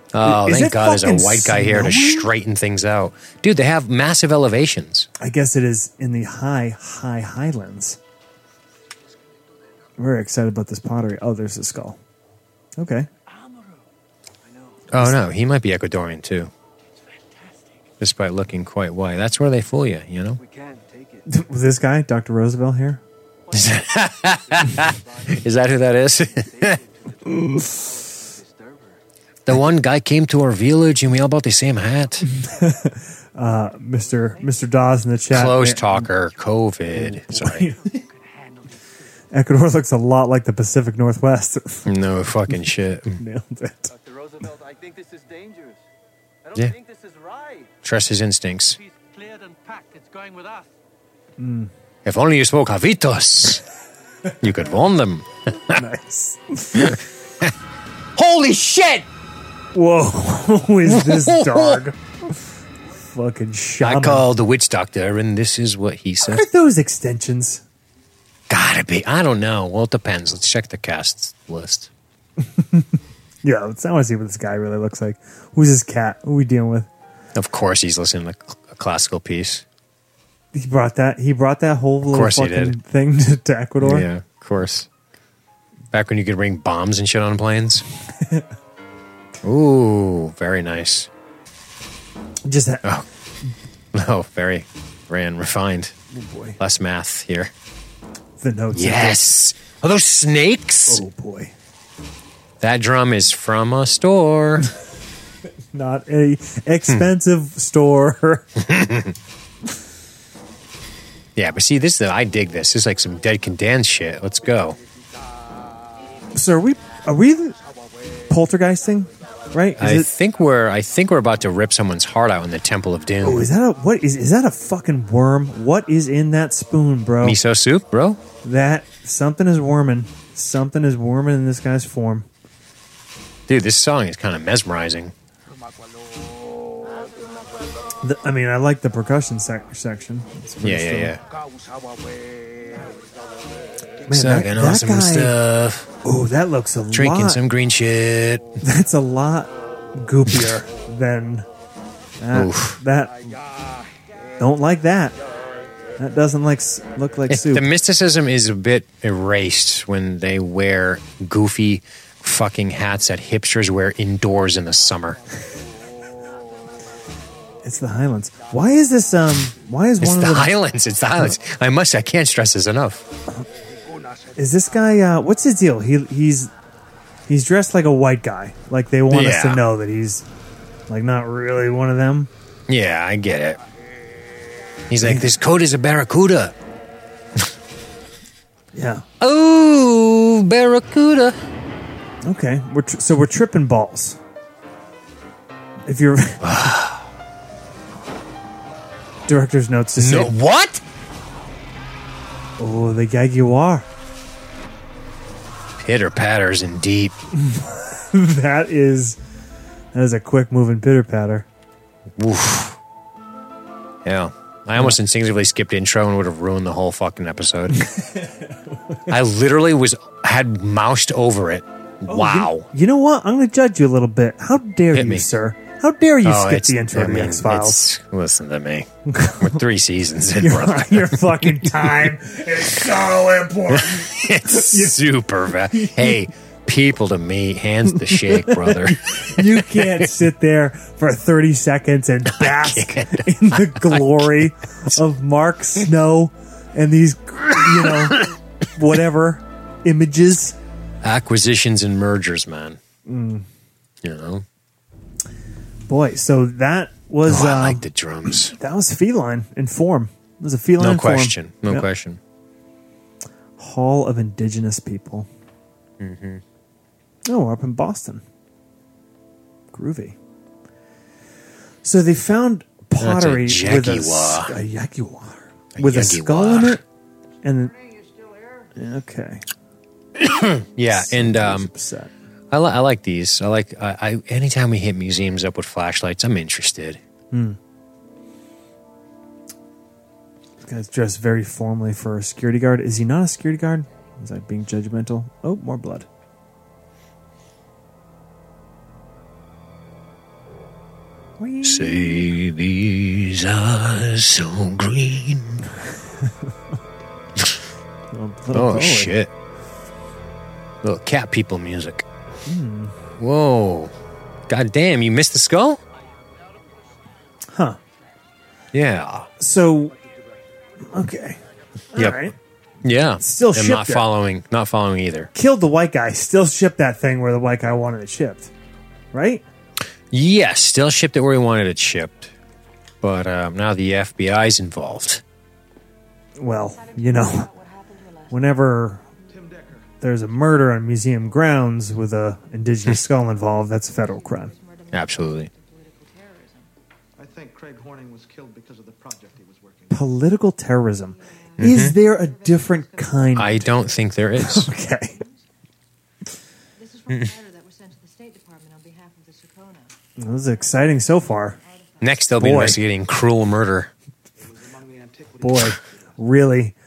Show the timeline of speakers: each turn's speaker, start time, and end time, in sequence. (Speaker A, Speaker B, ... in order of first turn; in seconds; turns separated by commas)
Speaker A: 0.1-5.1, Speaker B: 0.2-2.3, Speaker B: 5.2-8.0, Speaker B: 10.0-12.0, Speaker B: 12.8-13.1, Speaker C: 13.3-13.8, Speaker C: 14.5-14.9, Speaker A: 14.9-16.5, Speaker A: 18.0-20.4, Speaker C: 20.4-21.3, Speaker B: 21.3-23.0, Speaker A: 23.5-26.8, Speaker C: 24.6-25.3, Speaker C: 26.3-29.0, Speaker A: 29.4-32.3, Speaker B: 32.2-36.1, Speaker A: 35.3-37.7, Speaker B: 36.9-38.0, Speaker B: 39.3-41.9, Speaker A: 41.9-43.2, Speaker B: 43.2-43.9, Speaker D: 44.1-45.6, Speaker C: 44.1-45.8, Speaker C: 46.5-47.6, Speaker D: 46.7-47.6, Speaker A: 47.8-48.8, Speaker C: 49.1-50.5, Speaker B: 51.4-51.7, Speaker A: 52.0-53.6, Speaker A: 54.4-55.8, Speaker B: 55.7-57.0, Speaker A: 56.7-57.5, Speaker A: 58.1-59.1, Speaker B: 59.7-62.4, Speaker A: 60.8-61.8, Speaker B: 63.1-64.3, Speaker A: 63.8-66.4, Speaker B: 66.2-67.6, Speaker A: 68.5-71.9, Speaker B: 72.5-72.8, Speaker B: 73.4-76.9, Speaker A: 77.3-79.6, Speaker B: 80.5-84.1, Speaker A: 82.0-82.8, Speaker A: 83.8-84.9, Speaker A: 85.9-87.8, Speaker A: 89.4-91.1, Speaker B: 92.5-92.8, Speaker A: 93.9-96.0, Speaker B: 96.1-96.6, Speaker A: 96.6-97.5, Speaker B: 98.4-99.2, Speaker A: 98.7-101.0, Speaker B: 100.9-101.5, Speaker A: 102.6-104.7, Speaker B: 105.7-108.6, Speaker A: 108.6-109.2, Speaker A: 111.3-114.8, Speaker B: 116.3-117.6, Speaker B: 118.3-120.1, Speaker A: 119.8-123.5, Speaker B: 123.2-127.4, Speaker A: 127.2-128.2, Speaker B: 128.4-132.3, Speaker A: 133.5-135.1, Speaker B: 138.0-141.2, Speaker A: 140.6-141.2, Speaker B: 144.1-145.3, Speaker A: 144.1-145.9, Speaker B: 146.0-147.4, Speaker A: 146.9-148.6, Speaker B: 148.6-151.5, Speaker B: 152.2-153.3, Speaker A: 152.3-152.8, Speaker B: 154.4-155.2, Speaker B: 156.0-157.7, Speaker A: 157.3-165.2, Speaker B: 167.6-170.5, Speaker A: 170.0-173.1, Speaker B: 174.3-176.5, Speaker B: 177.3-180.2, Speaker A: 179.1-179.7, Speaker B: 180.9-182.3, Speaker A: 182.7-183.6, Speaker A: 184.9-186.5, Speaker B: 185.0-185.3, Speaker B: 188.7-189.1, Speaker A: 189.2-191.4, Speaker B: 192.2-194.2, Speaker B: 195.8-196.5, Speaker A: 196.4-197.1, Speaker B: 199.3-200.3, Speaker A: 200.0-200.8, Speaker B: 202.6-203.9, Speaker A: 205.8-207.2, Speaker B: 207.3-209.2, Speaker B: 209.9-211.4, Speaker A: 212.2-212.8, Speaker A: 214.0-217.9, Speaker B: 217.8-218.4, Speaker A: 219.1-222.7, Speaker B: 222.1-227.8, Speaker A: 224.9-225.3, Speaker A: 226.2-232.2, Speaker B: 229.1-229.6, Speaker B: 230.3-235.1, Speaker A: 233.7-240.1, Speaker B: 235.7-236.2, Speaker B: 238.0-250.6, Speaker A: 242.3-244.5, Speaker A: 247.6-248.3, Speaker A: 251.0-252.8, Speaker B: 253.1-253.4, Speaker A: 254.0-254.4, Speaker B: 255.9-261.9, Speaker A: 257.2-258.6, Speaker A: 260.8-262.2, Speaker B: 263.6-265.3, Speaker A: 266.0-266.4, Speaker B: 267.2-268.2, Speaker B: 269.7-270.1, Speaker B: 271.8-276.8, Speaker A: 273.0-274.6, Speaker A: 275.7-276.8, Speaker B: 277.4-277.8, Speaker B: 278.7-279.4, Speaker A: 280.1-281.7, Speaker B: 280.9-282.1, Speaker A: 282.5-287.0, Speaker B: 287.3-287.6, Speaker B: 290.6-296.1, Speaker B: 301.4-302.3, Speaker A: 301.6-305.7, Speaker A: 307.4-307.6, Speaker B: 308.1-309.1, Speaker A: 308.5-309.3, Speaker A: 310.8-312.1, Speaker B: 312.4-312.9, Speaker A: 313.2-313.9, Speaker A: 314.5-315.8, Speaker B: 317.5-317.8, Speaker A: 318.7-319.3, Speaker B: 319.4-319.9, Speaker B: 320.8-321.4, Speaker B: 321.9-322.4, Speaker A: 321.9-322.3, Speaker A: 322.8-325.3, Speaker B: 323.2-324.1, Speaker B: 325.3-328.5, Speaker B: 329.1-329.4, Speaker A: 330.1-332.3, Speaker A: 333.0-335.2, Speaker B: 336.4-337.5, Speaker E: 336.5-338.6, Speaker B: 338.3-339.1, Speaker D: 339.3-339.9, Speaker B: 340.0-344.5, Speaker E: 343.9-346.7, Speaker A: 344.9-345.5, Speaker D: 347.2-350.1, Speaker B: 349.9-353.7, Speaker E: 351.0-355.4, Speaker A: 351.6-351.9, Speaker A: 353.4-354.7, Speaker B: 354.4-355.2, Speaker E: 356.7-362.6, Speaker B: 360.2-361.6, Speaker A: 362.0-363.9, Speaker B: 362.3-362.8, Speaker D: 364.4-366.2, Speaker B: 365.4-366.7